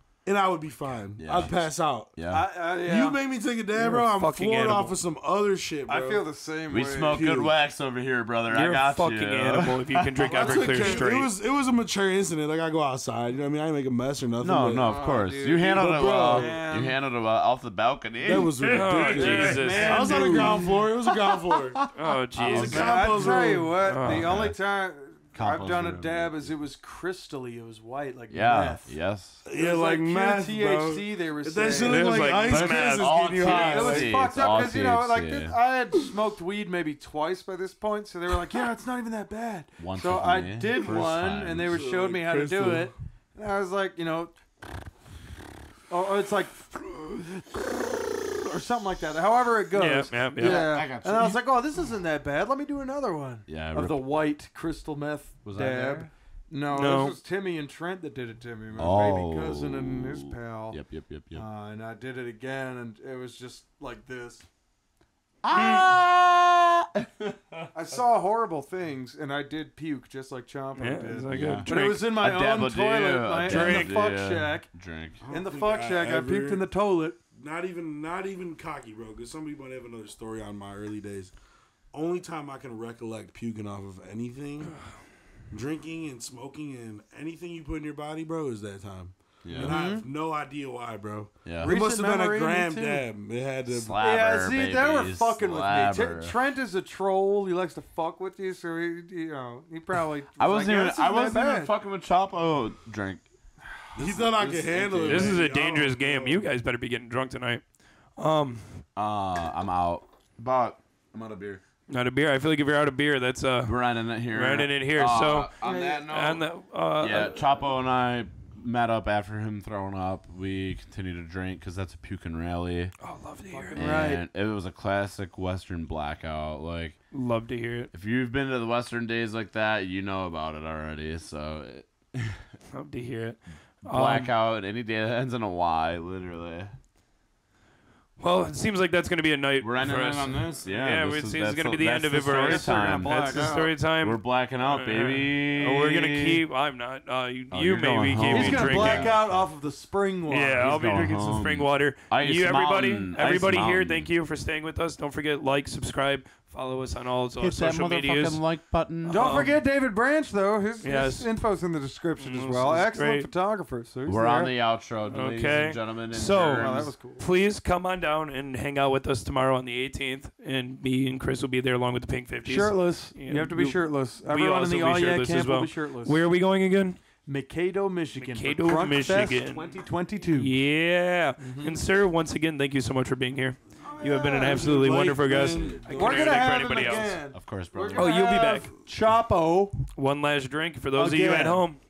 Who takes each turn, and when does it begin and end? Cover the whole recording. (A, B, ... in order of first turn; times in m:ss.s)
0:00.2-0:02.1 A
0:01.2-0:01.6 B
0:02.2-0:02.5 B
0:02.3-0:03.2 C
0:02.7-0:06.2 A
0:03.8-0:05.0 D
0:05.9-0:07.2 C
0:06.7-0:10.8 B
0:07.1-0:07.6 A
0:08.5-0:11.3 D
0:10.2-0:15.0 A
0:10.3-0:11.0 C
0:14.4-0:20.5 B
0:14.8-0:17.0 C
0:15.6-0:16.6 A
0:18.2-0:21.8 A
0:18.6-0:20.6 D
0:18.9-0:20.9 C
0:21.8-0:24.6 B
0:21.9-0:23.2 D
0:22.4-0:23.8 A
0:22.5-0:28.9 C
0:23.8-0:24.3 D
0:25.4-0:26.4 B
0:28.3-0:29.4 B
0:29.4-0:34.4 A
0:29.5-0:32.7 C
0:31.8-0:33.1 D
0:32.5-0:35.6 B
0:33.4-0:44.4 C
0:39.8-0:41.8 B
0:40.8-0:42.9 A
0:45.9-1:00.8 C
0:49.7-0:50.8 D
0:50.4-0:51.4 B
0:53.5-0:54.1 B
0:55.4-0:56.1 B
0:56.7-0:57.2 D
0:58.8-1:01.5 B
1:01.3-1:04.4 C
1:05.4-1:07.7 B
1:05.5-1:05.9 D
1:07.7-1:14.7 C
1:10.8-1:12.2 D
1:11.3-1:15.2 B
1:13.5-1:14.0 D
1:15.2-1:16.7 A
1:15.3-1:17.2 C
1:17.3-1:21.3 A
1:21.9-1:24.8 A
1:25.5-1:34.0 A
1:29.4-1:29.8 B
1:29.6-1:30.1 C
1:31.4-1:31.8 B
1:31.6-1:33.0 C
1:33.7-1:36.4 B
1:34.0-1:41.7 C
1:40.4-1:43.2 B
1:44.0-1:46.4 A
1:44.0-1:45.4 B
1:45.1-1:47.6 D
1:48.2-1:48.8 D
1:49.0-1:51.6 B
1:51.9-1:53.8 D
1:53.7-1:56.4 B
1:54.3-1:55.5 D
1:55.6-1:56.0 C
1:56.1-1:57.4 D
1:57.0-2:03.0 B
2:03.0-2:03.9 D
2:03.5-2:04.2 C
2:03.8-2:07.0 B
2:07.1-2:07.9 D
2:07.9-2:12.4 B
2:12.7-2:14.3 D
2:13.8-2:16.8 B
2:18.2-2:29.2 D
2:19.6-2:26.4 B
2:22.3-2:23.7 C
2:27.5-2:29.5 B
2:28.3-2:30.7 C
2:30.3-2:38.4 D
2:30.6-2:34.1 B
2:37.4-2:39.5 B
2:39.0-2:39.6 D
2:39.1-2:44.5 C
2:40.8-2:41.3 D
2:42.2-2:43.3 D
2:44.1-2:46.9 B
2:45.1-2:57.0 D
2:46.6-2:47.2 C
2:52.4-2:56.2 C
2:57.2-3:00.6 C
2:58.2-3:07.2 D
3:01.4-3:01.8 C
3:03.9-3:04.6 C
3:04.0-3:06.7 A
3:05.5-3:05.8 B
3:05.9-3:09.8 C
3:07.3-3:08.3 B
3:08.0-3:08.7 D
3:09.9-3:11.8 D
3:11.0-3:11.6 C